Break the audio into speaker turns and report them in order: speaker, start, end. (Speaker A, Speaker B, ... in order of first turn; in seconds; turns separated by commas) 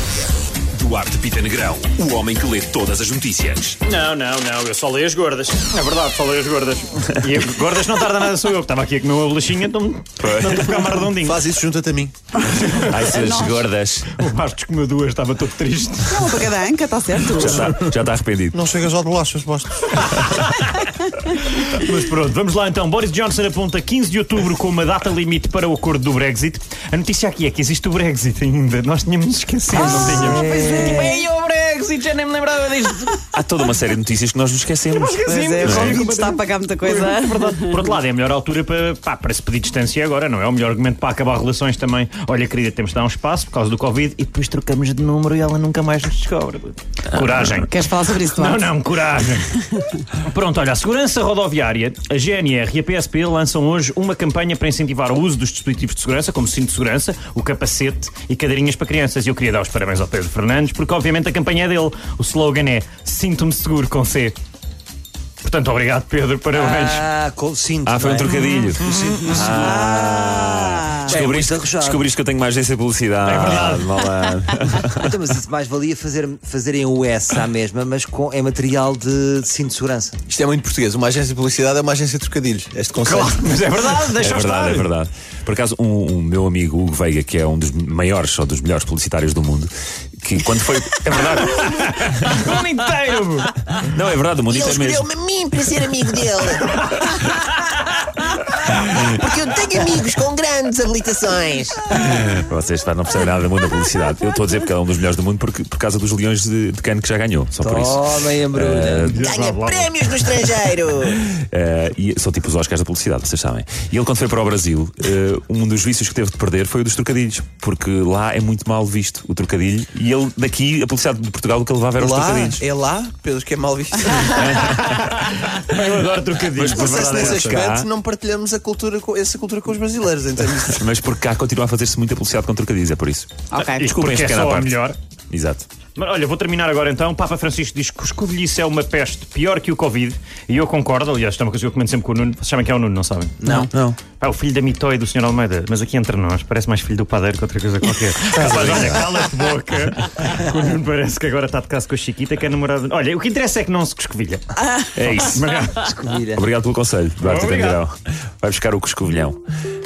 Speaker A: 0.7-3.8, Speaker B: 3.8-11.4, Speaker A: 10.2-10.7, Speaker C: 11.2-12.1, Speaker B: 12.4-13.2, Speaker A: 12.7-14.2, Speaker D: 13.1-13.4, Speaker B: 14.1-16.4, Speaker D: 16.1-17.8, Speaker A: 17.3-18.6, Speaker C: 18.5-20.0, Speaker B: 20.2-33.2, Speaker E: 29.8-31.0, Speaker A: 33.3-36.0, Speaker B: 34.9-64.3, Speaker D: 35.1-37.8, Speaker D: 47.5-48.6, Speaker B: 65.4-67.1, Speaker E: 66.5-72.1, Speaker A: 67.8-75.1, Speaker D: 69.3-71.1, Speaker B: 73.2-74.1, Speaker E: 74.8-80.2, Speaker C: 80.3-83.5, Speaker B: 83.0-84.9, Speaker A: 84.2-91.5, Speaker B: 91.1-93.8, Speaker A: 93.9-95.1, Speaker F: 94.5-96.9, Speaker F: 98.7-102.0, Speaker A: 102.0-109.3, Speaker E: 107.6-109.1, Speaker B: 109.0-109.9, Speaker F: 109.2-111.3, Speaker A: 111.3-122.6, Speaker C: 122.0-125.0, Speaker A: 124.3-124.7, Speaker B: 124.7-127.6, Speaker A: 126.5-127.9, Speaker C: 126.7-130.8, Speaker A: 130.7-135.6, Speaker D: 133.5-133.9, Speaker B: 133.8-135.0, Speaker B: 135.9-143.4, Speaker A: 143.5-144.0, Speaker B: 144.2-156.0, Speaker A: 148.3-149.0, Speaker A: 154.9-155.4, Speaker E: 155.9-156.4, Speaker A: 156.3-159.4, Speaker B: 157.2-157.8